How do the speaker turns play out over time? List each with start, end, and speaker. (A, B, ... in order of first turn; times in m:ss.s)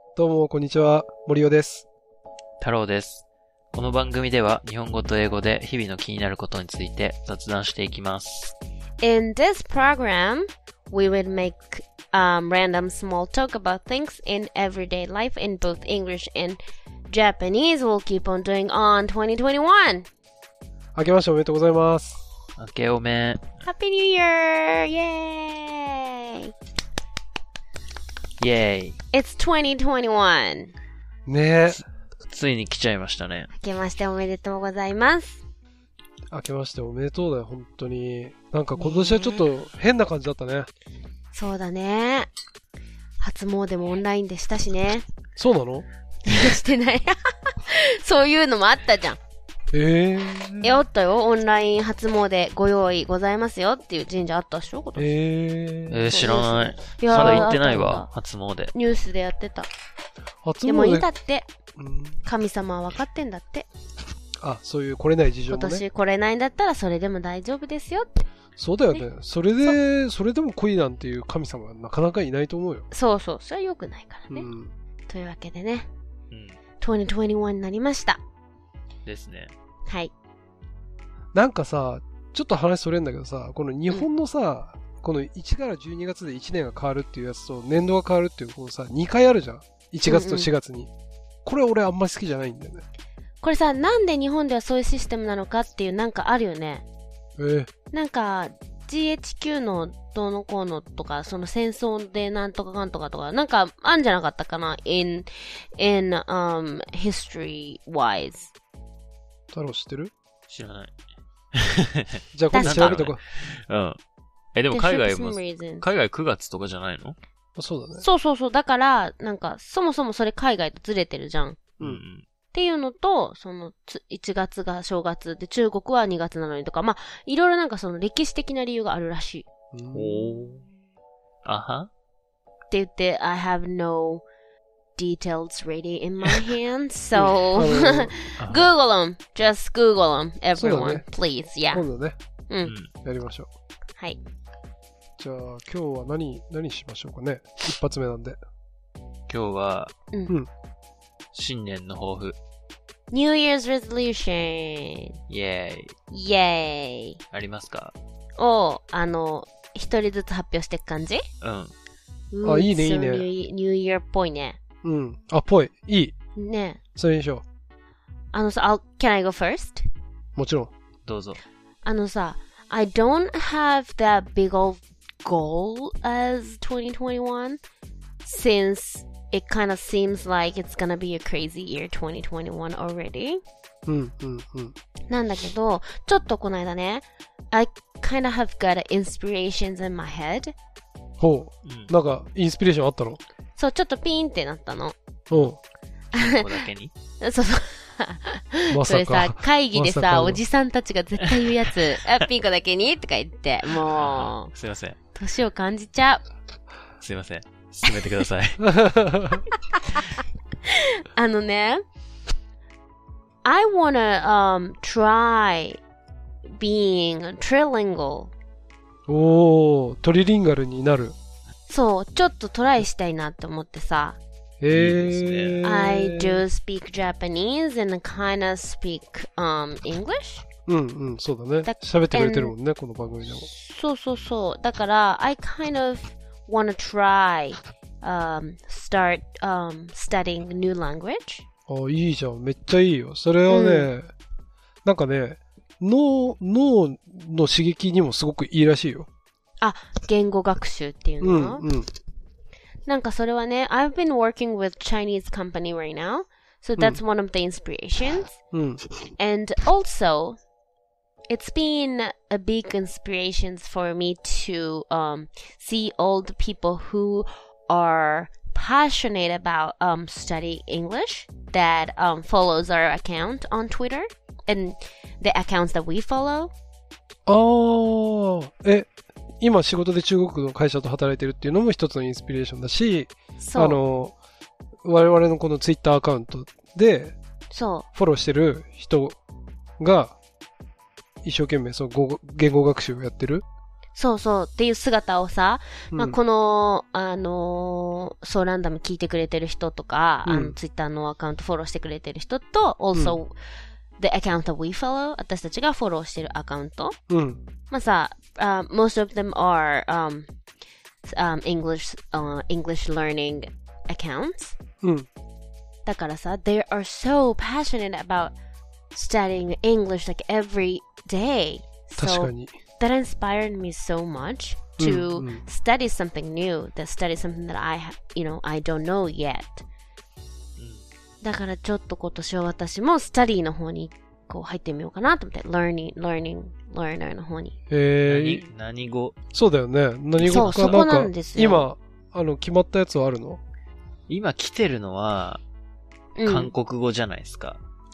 0:00.2-0:01.8 A
0:02.6-0:08.5 B
0:09.0-0:20.1 C
0:20.9-0:22.2 A
0:22.6-0:23.5 B
0:23.6-0:26.5 C
0:28.4-0:29.0 B
0:29.1-0:30.7 C
0:31.2-0:31.8 A
0:32.3-0:33.5 B
0:33.5-0:35.4 C
0:36.3-0:40.7 A
0:38.8-0:39.5 C
0:41.3-0:42.3 C
0:43.2-0:45.0 C
0:45.4-0:45.8 A
0:46.2-0:49.2 C
0:49.7-0:50.8 A
0:50.6-0:55.1 C
0:55.0-0:56.3 A
0:55.9-0:58.7 B
0:56.1-0:58.1 C
0:57.1-0:57.6 A
0:58.7-0:59.7 C
1:00.4-1:01.1 A
1:00.6-1:01.4 C
1:01.8-1:02.2 A
1:02.2-1:03.7 C
1:04.4-1:05.8 A
1:05.5-1:08.2 C
1:08.6-1:12.9 A
1:12.9-1:14.5 C
1:14.3-1:14.7 A
1:15.1-1:15.9 C
1:16.3-1:16.6 B
1:16.8-1:18.2 C
1:19.0-1:19.5 B
1:19.9-1:20.1 C
1:21.3-1:30.9 A
1:30.0-1:30.5 C
1:31.4-1:32.8 A
1:33.4-1:36.8 C
1:37.4-1:37.7 A
1:37.9-1:48.5 C
1:49.5-1:50.1 A
1:50.5-1:50.9 B
1:51.5-1:54.0 B
1:52.3-1:53.2 A
1:52.5-1:53.0 C
1:54.5-1:57.2 B
1:54.7-1:55.8 C
1:57.6-1:58.0 A
1:58.0-2:01.6 C
2:01.8-2:02.2 B
2:02.5-2:09.5 C
2:09.7-2:10.2 A
2:09.9-2:10.6 B
2:11.4-2:11.9 B
2:12.7-2:14.2 C
2:15.0-2:21.8 C
2:17.1-2:18.1 A
2:18.4-2:18.7 B
2:20.6-2:21.1 A
2:21.7-2:22.2 A
2:22.6-2:22.9 B
2:23.0-2:23.5 A
2:25.2-2:28.4 A
2:29.3-2:29.9 B
2:31.3-2:32.4 B
2:33.1-2:35.2 C
2:35.3-2:35.9 B
2:36.1-2:37.2 C
2:37.3-2:37.9 B
2:38.4-2:41.2 C
2:41.4-2:41.7 B
2:42.3-2:44.6 C
2:42.4-2:43.2 A
2:44.8-2:46.1 A
2:46.4-2:46.8 C
2:47.0-2:47.4 A
2:48.3-2:49.8 C
2:50.4-2:50.7 A
2:51.0-2:51.4 B
2:51.8-2:57.6 C
2:58.2-3:03.4 C
3:03.8-3:04.7 A
3:05.1-3:10.5 C
3:11.2-3:13.2 A
3:11.6-3:11.9 B
3:13.6-3:14.9 C
3:15.3-3:15.6 A
3:16.1-3:16.6 C
3:16.1-3:16.9 B
3:17.2-3:24.5 C
3:18.7-3:20.4 A
3:23.8-3:25.0 B
3:25.1-3:26.2 C
3:27.0-3:28.6 B
3:28.6-3:29.4 A
3:29.5-3:30.0 C
3:30.6-3:31.8 C
3:33.4-3:35.8 C
3:36.5-3:38.3 C
3:39.1-3:41.1 A
3:41.7-3:44.2 C
3:44.6-3:46.4 A
3:44.7-3:45.6 B
3:45.6-3:50.4 C
3:50.7-3:53.5 A
3:51.6-3:52.5 C
3:53.3-4:01.4 C
4:01.7-4:04.1 A
4:03.5-4:03.9 C
4:04.8-4:09.1 A
4:09.6-4:11.6 C
4:11.2-4:11.9 A
4:12.9-4:18.4 C
4:18.5-4:18.8 A
4:19.2-4:20.4 C
4:21.3-4:36.5 C
4:37.3-4:38.9 A
4:39.4-4:44.1 A
4:43.4-4:43.8 C
4:44.8-4:47.2 A
4:47.5-4:47.9 C
4:47.9-4:49.2 A
4:49.8-4:50.2 A
4:51.2-4:53.4 A
4:54.0-5:03.3 C
5:00.2-5:00.5 A
5:04.0-5:07.0 C
5:07.1-5:07.4 A
5:07.7-5:10.3 C
5:11.0-5:14.6 C
5:14.8-5:15.1 A
5:15.8-5:18.3 C
5:18.9-5:29.6 C
5:22.0-5:22.5 A
5:24.8-5:25.4 A
5:30.6-5:30.8 B
5:31.2-5:37.6 C
5:37.7-5:38.4 A
5:38.0-5:39.2 B
5:39.3-5:43.4 A
5:40.2-5:40.7 B
5:40.2-5:41.7 C
5:44.1-5:45.4 B
5:46.2-5:46.5 C
5:46.2-5:47.6 B